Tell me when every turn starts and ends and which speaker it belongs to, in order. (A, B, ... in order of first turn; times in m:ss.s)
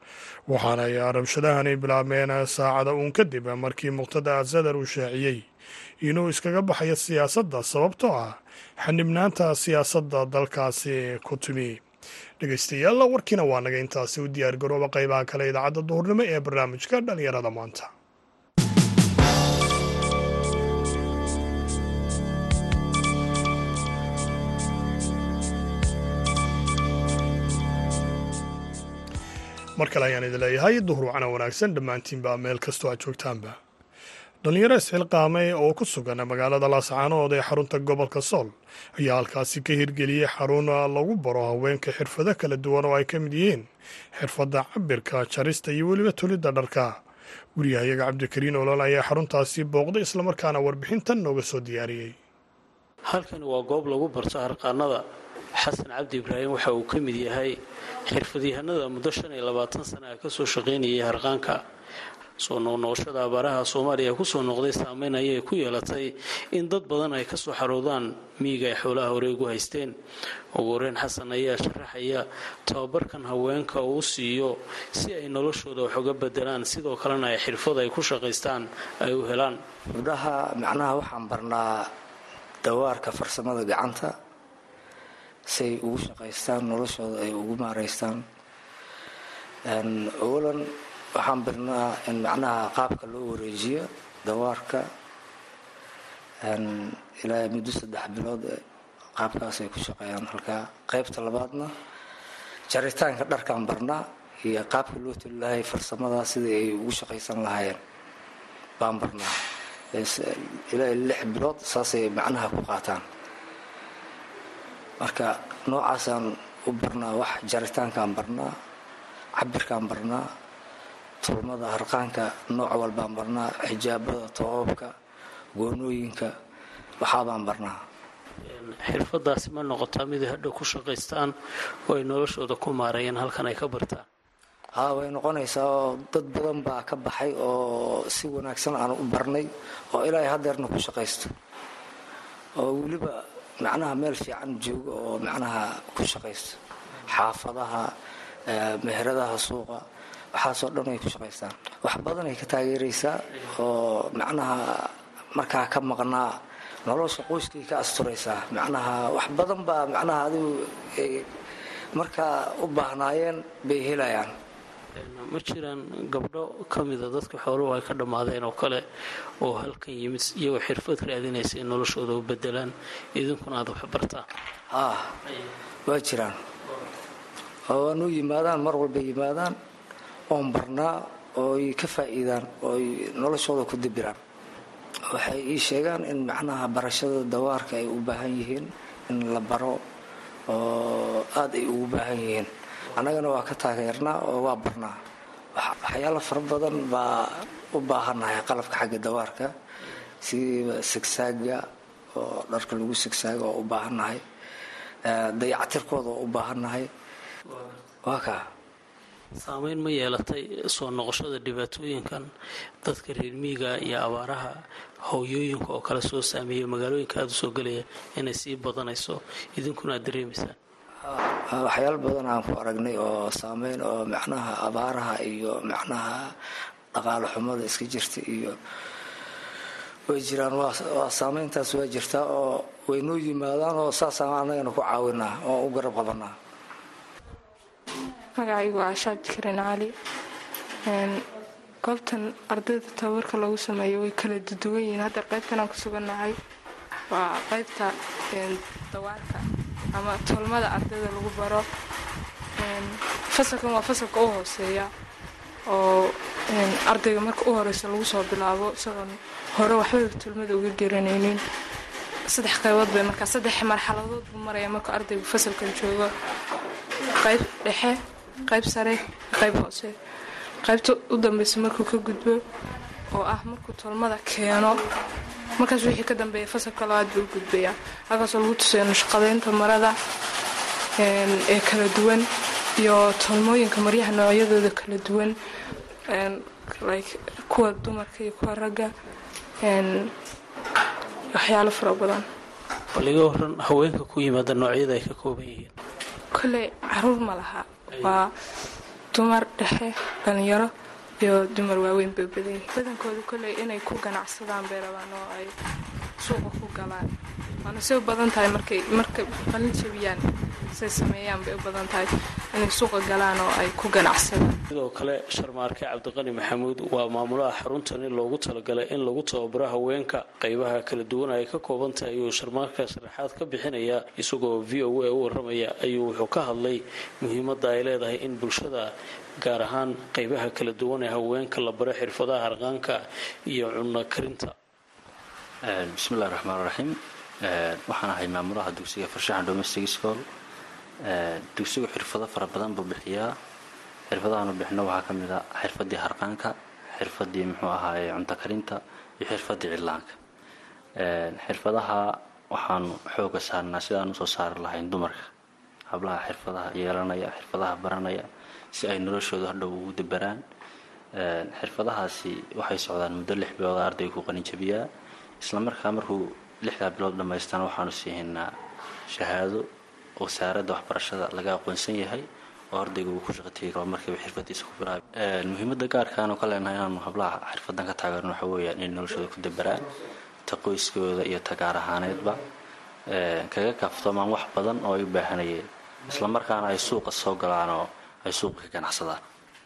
0:00.5-0:05.5 A
0:06.0-0:11.8 A
0:12.4-0:17.9 A
0:29.8-0:33.6 A
0:34.4-0:47.0 A
0:47.6-0:52.2 A
0:53.1-0:55.0 B
0:55.6-1:01.6 B
1:02.4-1:09.9 B
1:10.5-1:19.6 B
1:19.9-1:21.9 C
1:22.6-1:24.1 C
1:25.5-1:28.2 C
1:29.7-1:34.9 C
1:36.4-1:38.6 C
1:39.2-1:41.7 C
1:42.7-1:47.8 C
1:48.8-1:49.3 C
1:49.9-1:53.0 C
1:55.0-1:58.5 C
1:59.4-2:00.2 C
2:01.2-2:04.9 C
2:05.6-2:06.3 C
2:07.0-2:07.8 C
2:08.4-2:11.3 B
2:11.9-2:14.0 B
2:14.8-2:21.3 C
2:22.6-2:27.9 C
2:28.5-2:29.8 C
2:30.3-2:41.3 C
2:41.9-2:44.3 C
2:44.9-2:48.8 B
2:49.4-2:54.2 B
2:54.7-2:55.1 C
2:55.8-2:56.4 C
2:57.7-2:59.6 C
3:00.3-3:04.2 C
3:05.1-3:09.8 C
3:10.5-3:14.9 C
3:15.6-3:19.5 C
3:20.2-3:21.6 C
3:22.1-3:24.2 C
3:25.0-3:26.9 C
3:28.0-3:28.4 C
3:29.4-3:32.3 B
3:32.8-3:40.6 B
3:41.0-3:46.3 C
3:46.9-3:48.6 C
3:50.1-3:56.3 C
3:58.4-3:59.9 D
4:00.8-4:01.2 D
4:01.8-4:06.4 D
4:07.1-4:11.6 D
4:12.6-4:14.9 D
4:15.7-4:21.4 D
4:22.3-4:26.1 D
4:27.2-4:29.9 D
4:30.6-4:32.4 D
4:33.1-4:34.8 D
4:35.6-4:40.0 D
4:41.0-4:42.3 D
4:42.8-4:45.4 D
4:46.1-4:48.9 D
4:49.6-4:50.1 D
4:51.3-4:52.2 D
4:52.9-4:55.7 B
4:56.3-4:58.3 D
4:57.9-4:58.2 B
4:59.1-5:05.5 D
5:06.2-5:07.1 D
5:07.6-5:14.6 D
5:14.7-5:34.5 B
5:35.6-5:40.2 E
5:41.0-5:43.3 E
5:44.1-5:50.2 E
5:51.0-5:55.3 E
5:55.9-6:00.4 E
6:01.2-6:04.8 E
6:05.4-6:08.5 E
6:09.1-6:09.7 E
6:10.2-6:19.9 E
6:20.4-6:22.4 E
6:23.1-6:29.2 E